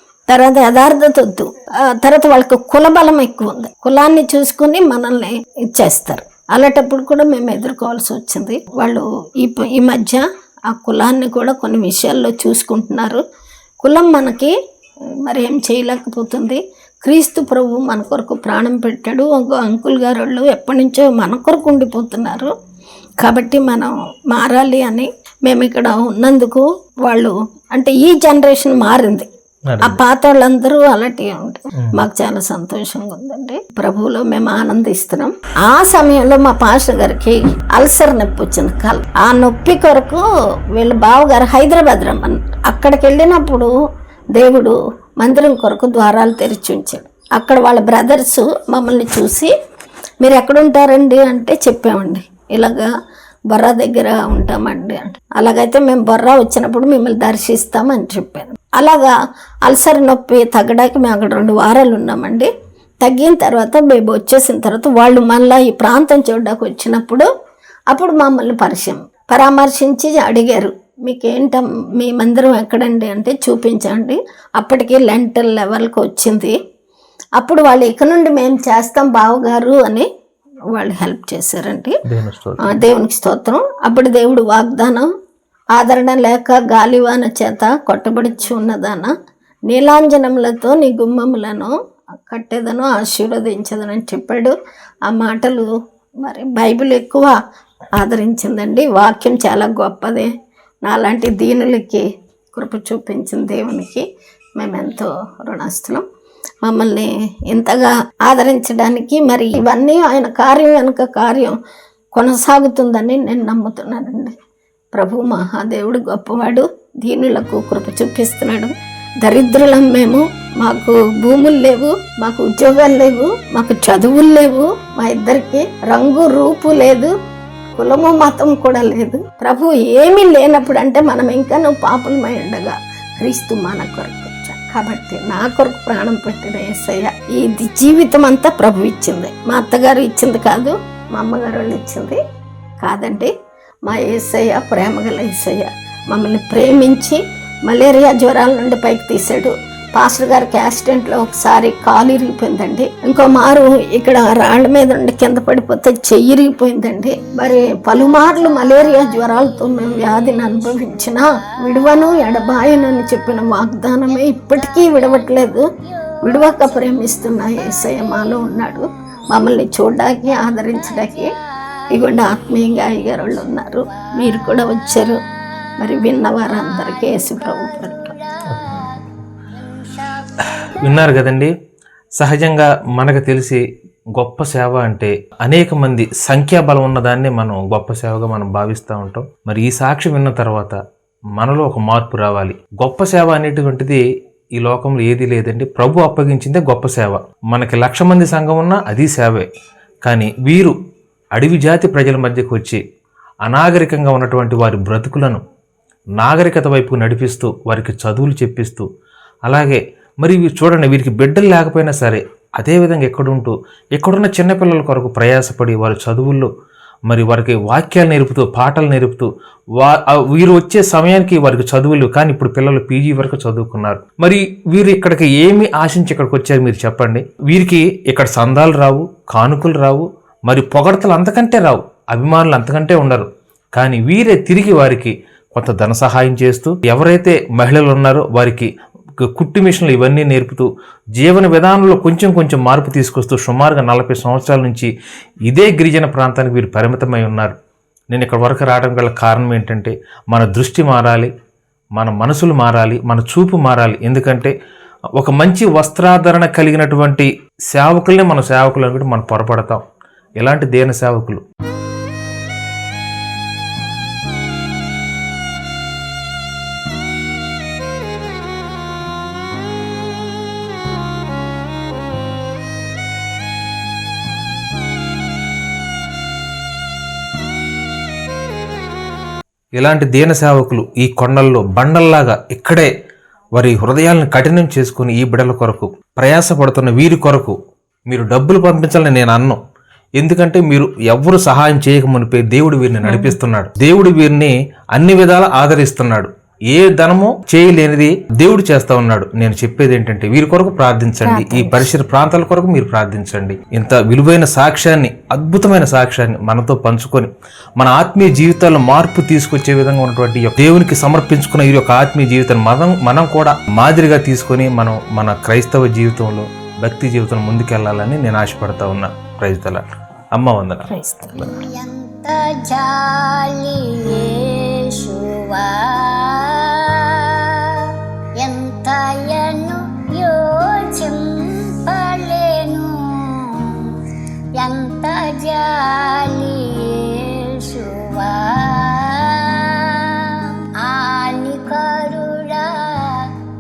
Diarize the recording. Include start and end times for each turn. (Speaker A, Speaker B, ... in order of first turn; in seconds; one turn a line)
Speaker A: 0.3-13.2
Speaker A: 13.8-14.5
Speaker A: 15.2-22.5
Speaker A: 23.2-29.3
Speaker B: 29.7-30.0
Speaker A: 29.8-40.2
Speaker A: 40.8-43.7
Speaker A: 44.4-49.5
Speaker A: 50.2-52.9
Speaker A: 53.5-59.1
Speaker A: 59.7-62.5
Speaker A: 63.0-67.3
Speaker A: 67.9-76.5
Speaker A: 77.4-80.1
Speaker A: 80.7-82.0
Speaker B: 82.1-82.9
Speaker A: 82.6-85.1
Speaker A: 85.8-89.1
Speaker A: 89.7-91.7
Speaker A: 92.3-94.5
Speaker A: 95.1-95.7
Speaker A: 96.2-97.4
Speaker A: 98.0-100.3
Speaker A: 100.8-104.0
Speaker A: 104.6-106.0
Speaker A: 106.6-111.6
Speaker A: 112.1-114.3
Speaker A: 114.9-127.1
Speaker A: 127.8-142.2
Speaker A: 142.8-143.3
Speaker A: 143.9-165.7
Speaker C: 157.6-161.9
Speaker C: 164.1-168.4
Speaker A: 166.2-171.3
Speaker C: 170.5-172.3
Speaker A: 171.9-175.2
Speaker C: 172.8-174.6
Speaker A: 175.8-178.2
Speaker C: 176.5-179.0
Speaker B: 178.5-178.8
Speaker C: 179.5-181.2
Speaker B: 180.6-181.5
Speaker B: 182.2-183.6
Speaker B: 184.2-190.8
Speaker B: 191.4-194.0
Speaker B: 194.6-199.5
Speaker B: 200.1-200.7
Speaker B: 201.4-202.8
Speaker B: 203.5-205.4
Speaker B: 206.2-208.9
Speaker B: 209.5-216.5
Speaker B: 217.1-238.7
Speaker B: 239.3-240.7
Speaker B: 241.2-244.9
Speaker B: 245.5-247.6
Speaker B: 248.1-251.3
Speaker B: 252.0-254.5
Speaker B: 255.2-259.8
Speaker B: 260.4-261.4
Speaker B: 279.8-282.9
Speaker B: 283.6-287.6
Speaker B: 288.1-289.6
Speaker B: 290.2-319.8
Speaker A: 301.3-301.7
Speaker B: 320.3-321.5
Speaker A: 320.9-321.6
Speaker C: 321.4-333.9
Speaker C: 334.6-343.3